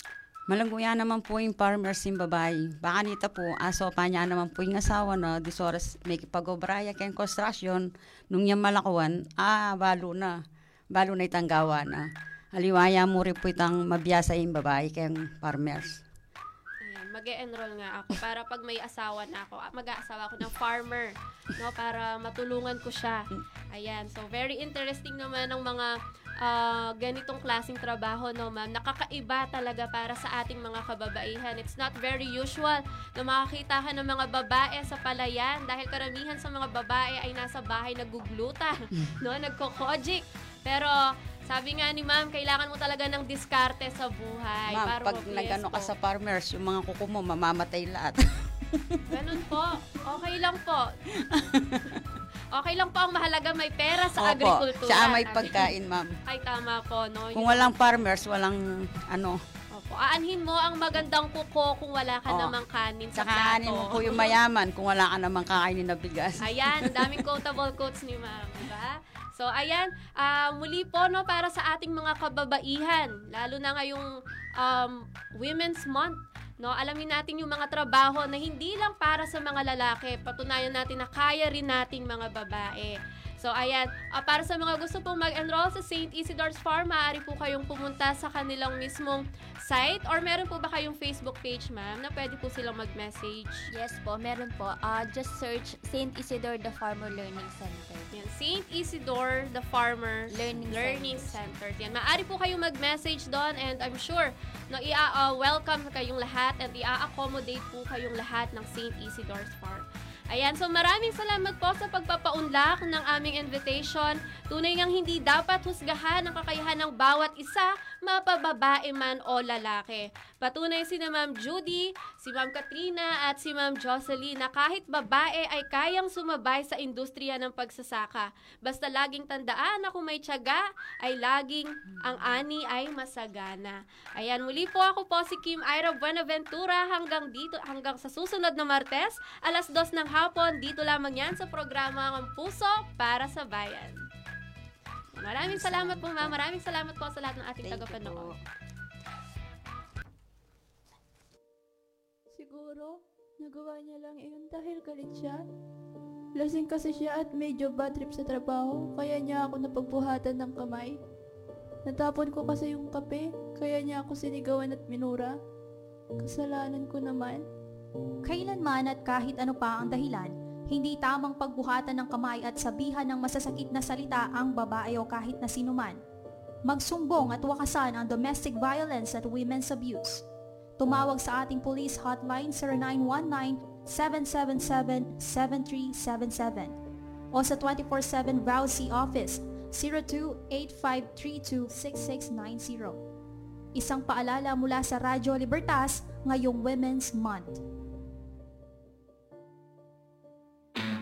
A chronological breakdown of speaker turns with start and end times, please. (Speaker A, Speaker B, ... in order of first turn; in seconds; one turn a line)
Speaker A: 0.5-10.3
Speaker A: 10.9-16.0
Speaker B: 16.8-23.2
Speaker B: 23.7-25.9
Speaker B: 26.4-40.9
Speaker B: 41.5-45.9
Speaker A: 44.7-49.0
Speaker B: 49.1-50.9
Speaker A: 51.3-51.9
Speaker B: 52.5-55.7
Speaker A: 54.1-56.1
Speaker B: 56.2-57.7
Speaker A: 57.3-59.4
Speaker B: 59.7-64.3
Speaker A: 62.3-62.5
Speaker A: 63.1-67.2
Speaker B: 66.4-74.1
Speaker B: 74.6-93.7
Speaker C: 93.7-98.1
Speaker B: 98.1-144.0
Speaker C: 100.3-101.4
Speaker B: 145.2-148.3
Speaker A: 145.4-146.3
Speaker A: 147.6-148.3
Speaker D: 152.3-155.4
Speaker D: 156.4-161.0
Speaker D: 161.8-165.4
Speaker D: 166.2-167.4
Speaker E: 168.2-176.0
Speaker E: 176.6-180.2
Speaker E: 180.8-186.8
Speaker E: 187.3-193.0
Speaker E: 193.7-197.6